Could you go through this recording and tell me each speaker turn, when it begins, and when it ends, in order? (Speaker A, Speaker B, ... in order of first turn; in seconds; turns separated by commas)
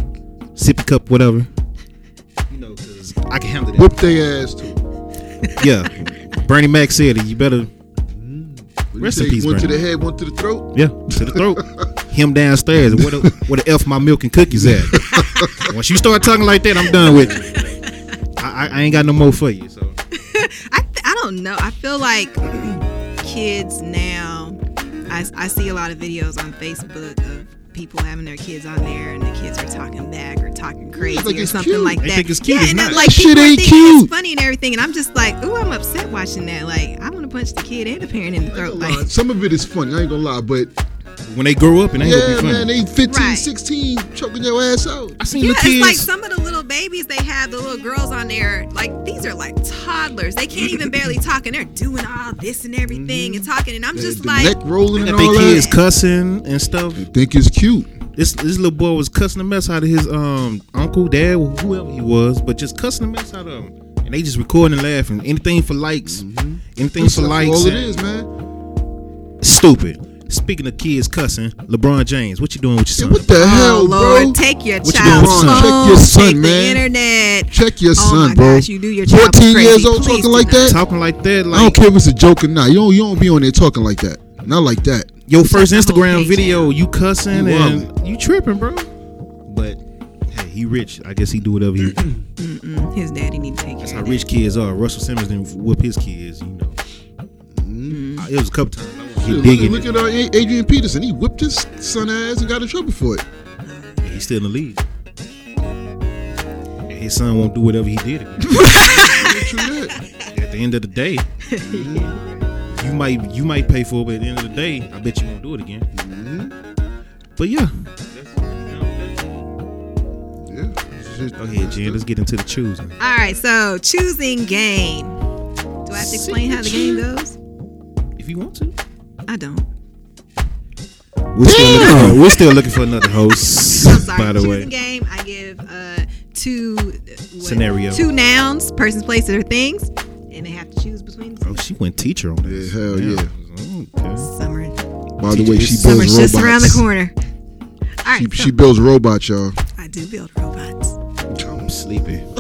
Speaker A: 0.6-1.5, Speaker A: 2.5-4.0, Speaker B: 3.8-4.8, Speaker A: 5.5-7.7, Speaker B: 8.1-11.9, Speaker A: 9.0-9.8, Speaker A: 10.7-17.8, Speaker B: 12.9-13.3, Speaker B: 14.5-15.7, Speaker C: 17.1-18.0, Speaker A: 18.4-20.0, Speaker C: 20.1-39.1, Speaker B: 30.9-32.0, Speaker A: 32.0-33.1, Speaker B: 32.9-34.1, Speaker B: 38.5-40.7, Speaker A: 41.3-42.7, Speaker B: 42.0-45.2, Speaker C: 43.1-43.5, Speaker A: 45.2-46.1, Speaker C: 45.3-55.8, Speaker B: 52.9-55.7, Speaker A: 55.0-57.1, Speaker B: 57.0-57.9, Speaker A: 58.2-66.2, Speaker B: 66.0-68.3, Speaker A: 66.8-68.0, Speaker A: 69.4-73.3, Speaker B: 73.0-76.8, Speaker C: 73.3-80.8, Speaker A: 74.8-75.9, Speaker B: 77.5-80.8, Speaker A: 80.6-81.8, Speaker B: 81.5-85.1, Speaker A: 85.3-88.9, Speaker C: 85.4-86.7, Speaker B: 87.3-87.9, Speaker A: 89.5-92.1, Speaker C: 92.4-94.2, Speaker A: 93.8-96.8, Speaker B: 97.5-98.1, Speaker C: 97.9-98.3, Speaker A: 98.2-100.1, Speaker B: 99.2-103.2, Speaker C: 103.6-104.2, Speaker A: 104.0-104.8, Speaker A: 106.9-109.2, Speaker C: 108.5-110.2, Speaker B: 108.6-110.0, Speaker A: 110.2-111.3, Speaker C: 111.5-112.3, Speaker B: 111.6-112.1, Speaker A: 112.7-115.8, Speaker B: 115.9-116.5, Speaker A: 117.4-119.3, Speaker B: 120.5-122.0, Speaker A: 121.4-123.0, Speaker C: 123.0-125.2, Speaker C: 125.8-127.3, Speaker A: 125.9-127.0, Speaker A: 128.2-128.8, Speaker C: 129.3-129.7, Speaker A: 131.3-134.7, Speaker B: 131.4-132.2, Speaker C: 133.7-141.7, Speaker A: 137.4-138.0, Speaker A: 141.4-144.3, Speaker B: 142.4-143.3, Speaker C: 144.2-144.8, Speaker B: 145.2-146.8, Speaker A: 145.2-146.1, Speaker C: 145.8-147.2, Speaker C: 148.0-148.6, Speaker B: 148.1-149.6, Speaker C: 149.8-151.0, Speaker B: 151.3-151.7, Speaker A: 151.4-152.2